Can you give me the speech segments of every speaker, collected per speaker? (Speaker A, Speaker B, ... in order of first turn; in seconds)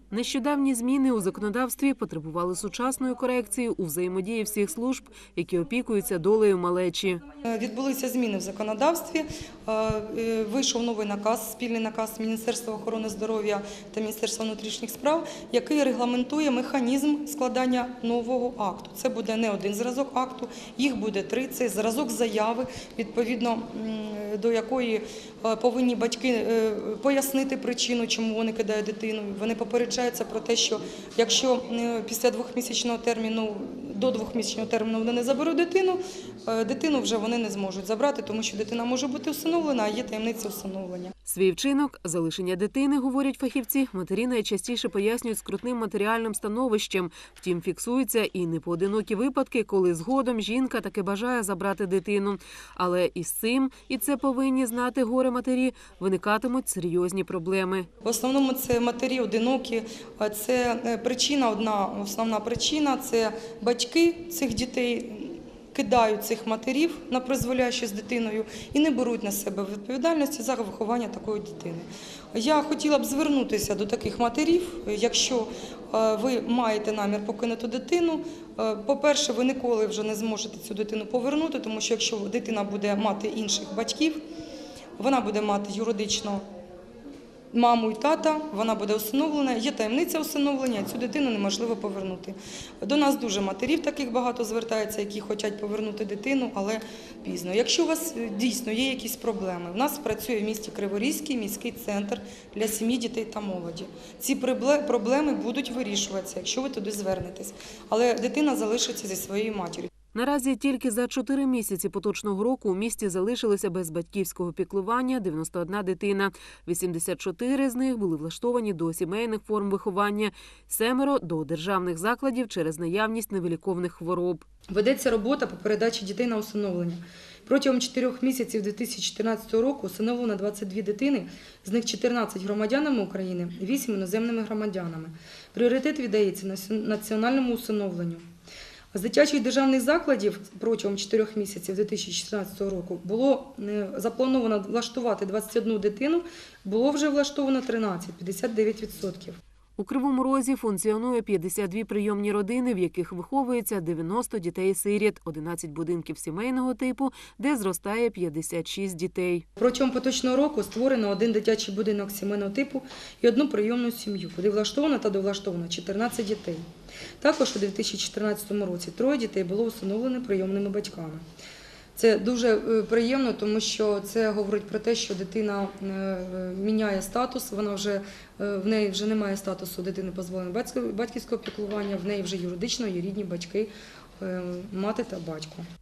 Speaker A: 0.1-7.2, 41.2-57.9, 110.1-124.4, 149.8-159.4
Speaker B: 7.4-41.1, 58.0-84.2, 85.0-86.4, 87.5-109.9, 124.7-138.2, 138.9-149.4, 159.6-166.6, 167.2-171.2, 171.9-185.6